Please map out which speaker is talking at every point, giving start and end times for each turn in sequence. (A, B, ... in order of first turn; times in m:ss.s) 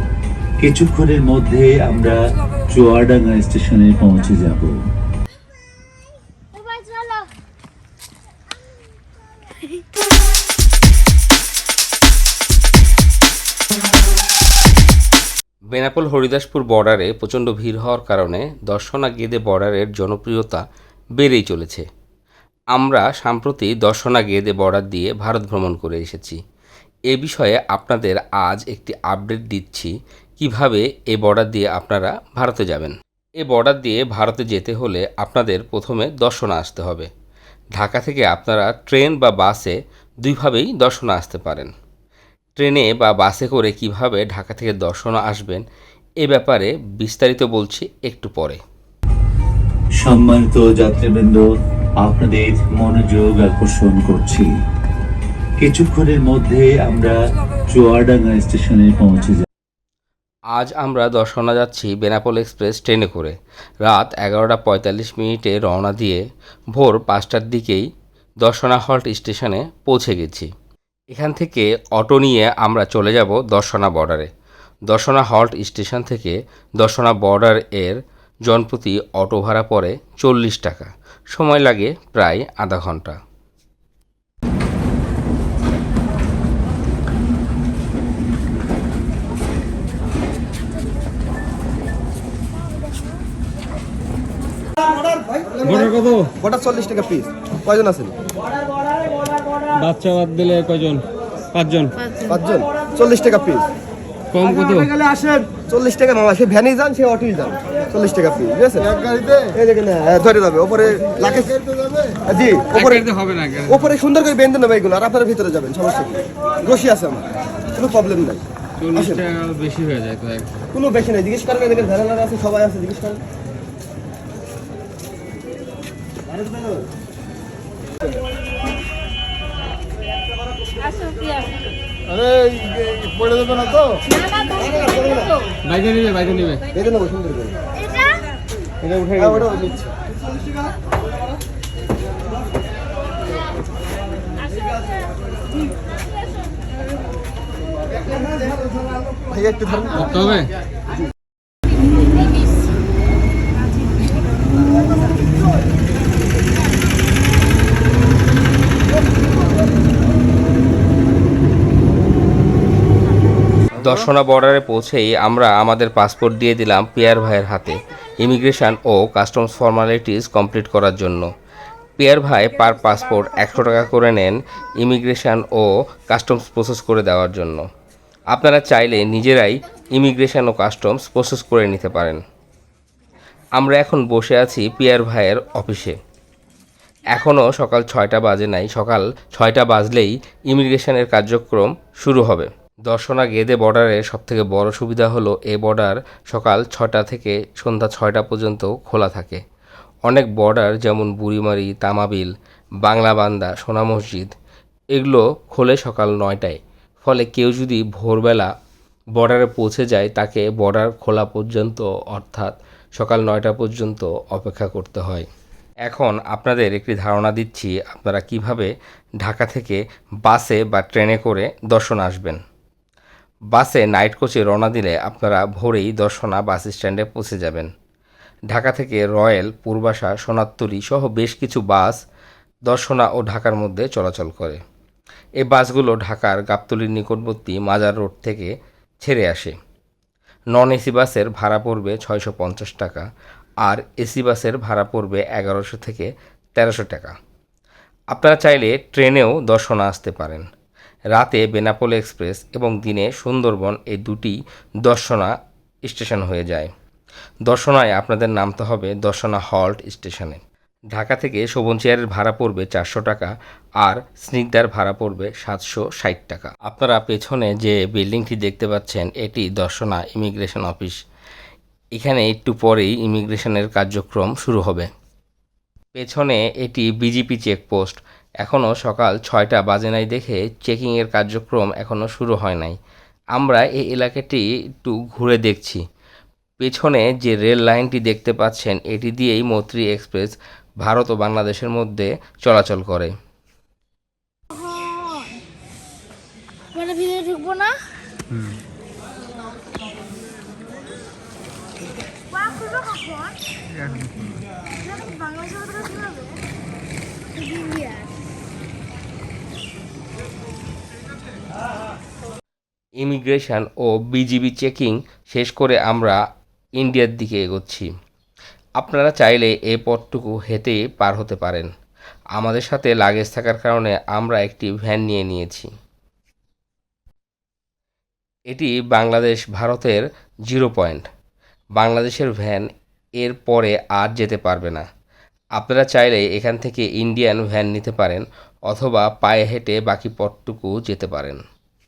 0:00.6-0:02.2 A
0:02.7-0:04.7 A
0:06.5-0:07.3 B
0:15.7-0:20.6 C
0:21.2-0:21.8 C
0:22.8-0:26.4 C
0:27.1-0:37.1 C
0:37.8-0:41.7 C
0:42.6-0:45.6 C
0:46.2-0:48.6 C
0:50.0-0:51.4 A
0:52.0-0:54.5 A
0:55.6-0:57.2 A
0:57.7-0:59.5 A
1:00.5-1:03.4 C
1:03.9-1:06.2 C
1:06.8-1:07.8 C
1:08.4-1:10.5 C
1:11.1-1:14.3 C
1:14.9-1:23.2 C
1:35.6-1:36.3 D
1:36.4-1:38.1 E
1:39.8-1:42.0 D
1:42.3-1:43.6 E
1:44.4-1:44.9 D
1:45.0-1:51.6 E
1:52.2-1:53.0 E
1:52.8-1:53.9 D
1:53.7-1:57.2 E
1:57.8-1:58.4 E
1:58.8-2:00.5 D
2:00.7-2:03.2 E
2:10.9-2:11.3 B
2:14.0-2:15.6 B
2:15.7-2:16.6 D
2:16.7-2:17.5 E
2:17.8-2:18.3 B
2:18.8-2:19.8 E
2:29.3-2:30.2 E
2:30.0-2:30.5 D
2:43.8-2:51.3 C
2:52.0-2:57.6 C
2:58.3-3:02.2 C
3:03.6-3:06.0 C
3:07.1-3:19.4 C
3:20.1-3:24.3 C
3:24.9-3:28.5 C
3:29.2-3:35.3 C
3:35.9-3:42.4 C
3:43.5-3:47.7 C
3:48.5-3:52.0 C
3:52.7-3:54.6 C
3:55.4-3:59.6 C
4:00.5-4:03.0 C
4:03.6-4:07.1 C
4:08.1-4:10.4 C
4:11.1-4:15.3 C
4:15.9-4:16.7 C
4:17.5-4:20.4 C
4:20.9-4:31.0 C
4:32.0-4:34.9 C
4:36.0-4:42.8 C
4:43.4-4:45.8 C
4:46.6-4:53.1 C
4:54.5-4:55.3 B
4:56.7-4:58.0 B
5:02.3-5:03.4 B
5:04.8-5:06.4 B
5:07.4-5:08.1 B
5:13.0-5:16.2 C
5:16.8-5:17.9 C
5:18.8-5:21.7 C
5:22.4-5:25.7 C
5:28.5-5:31.0 C
5:31.8-5:32.7 C
5:33.2-5:34.8 C
5:35.6-5:41.4 C